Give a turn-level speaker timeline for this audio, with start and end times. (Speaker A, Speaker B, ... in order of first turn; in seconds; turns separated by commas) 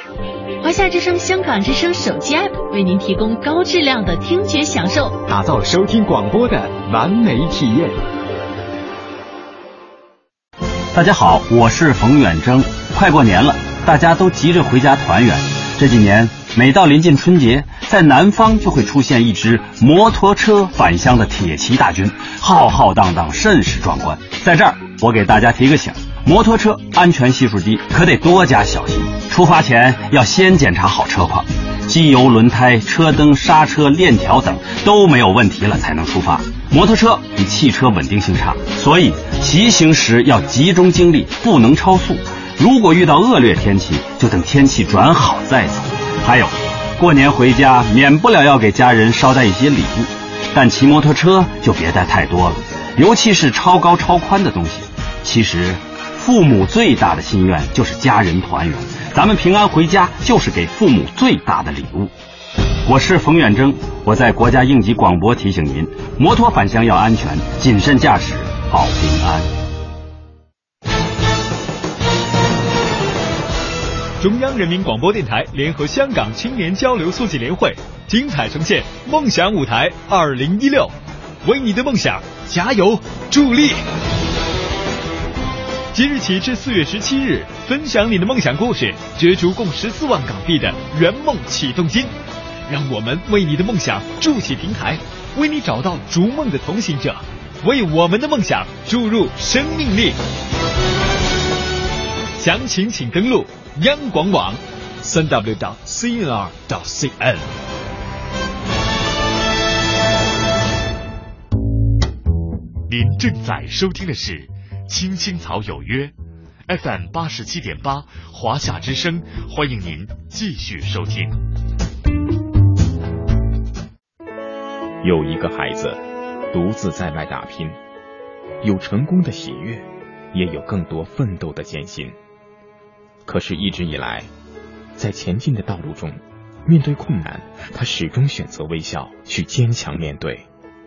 Speaker A: 0.6-5.2, Speaker B: 5.3-8.1, Speaker C: 10.9-62.1, Speaker C: 62.9-69.5, Speaker D: 74.2-80.9, Speaker D: 81.4-83.8, Speaker D: 85.9-92.1, Speaker D: 92.7-100.2, Speaker D: 102.4-107.5, Speaker E: 112.9-116.1, Speaker E: 116.7-121.3, Speaker F: 125.0-126.0, Speaker F: 126.5-127.8, Speaker F: 128.6-132.2, Speaker F: 133.2-134.3, Speaker F: 135.0-140.5